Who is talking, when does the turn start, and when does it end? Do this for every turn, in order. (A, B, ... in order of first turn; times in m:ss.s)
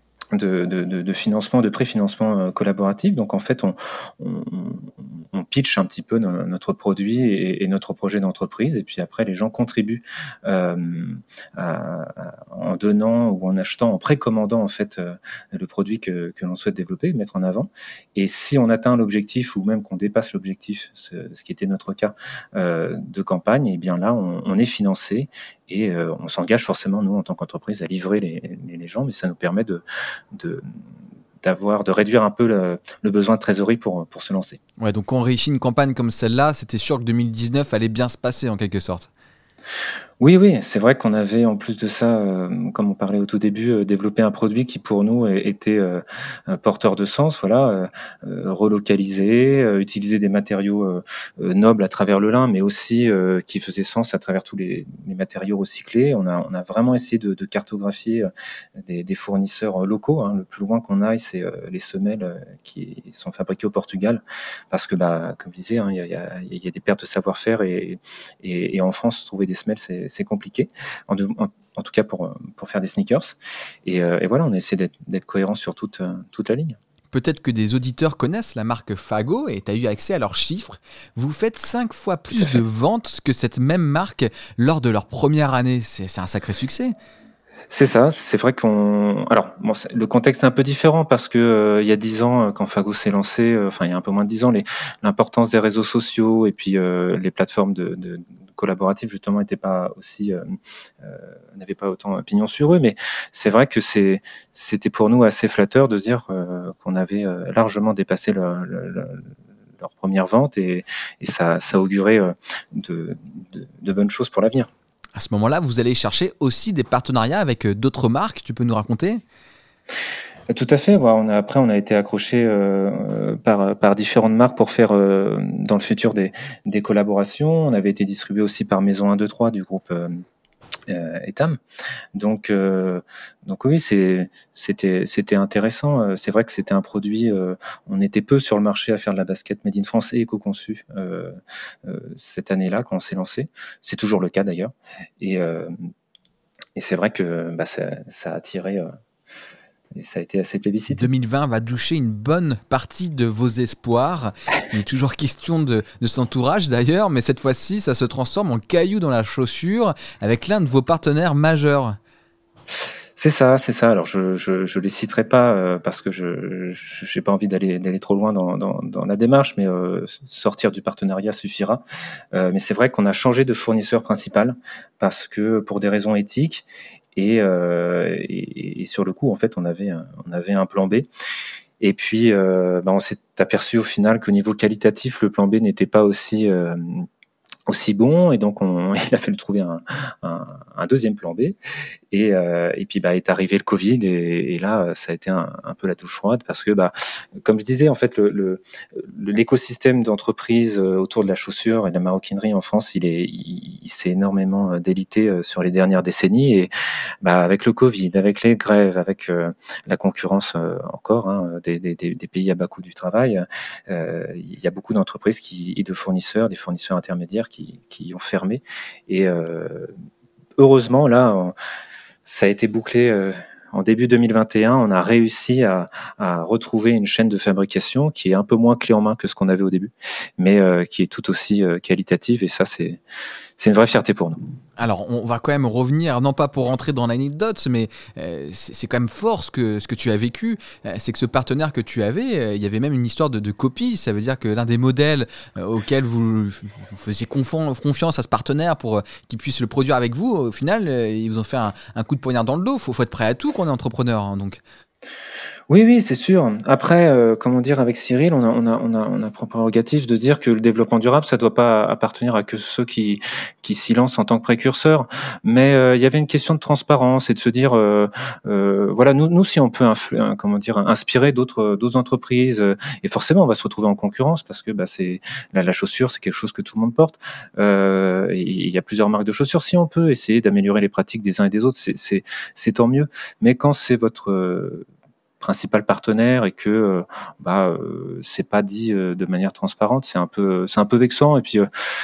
0:00.3-0:29.8 A
0:30.3-0:30.6 A
0:31.4-0:34.6 A
0:34.8-0:39.1 B
0:40.2-0:58.3 A
0:58.8-1:16.8 A
1:17.1-1:26.9 B
1:22.3-1:22.6 A
1:27.7-1:40.4 A
1:41.0-1:49.3 A
1:49.8-1:54.7 A
1:55.1-1:59.2 B
2:00.5-2:10.1 A
2:10.9-2:11.6 A
2:12.1-2:25.7 A
2:26.8-2:28.9 A
2:30.0-2:31.1 A
2:30.9-2:42.0 B
2:43.2-2:51.8 A
2:52.3-3:01.1 A
3:01.8-3:07.0 A
3:07.7-3:11.6 A
3:12.1-3:26.7 A
3:27.2-3:39.9 A
3:40.6-3:41.5 A
3:42.2-3:53.0 A
3:53.6-3:54.4 A
3:54.8-4:14.6 B
4:15.7-4:44.8 A
4:45.4-4:51.7 A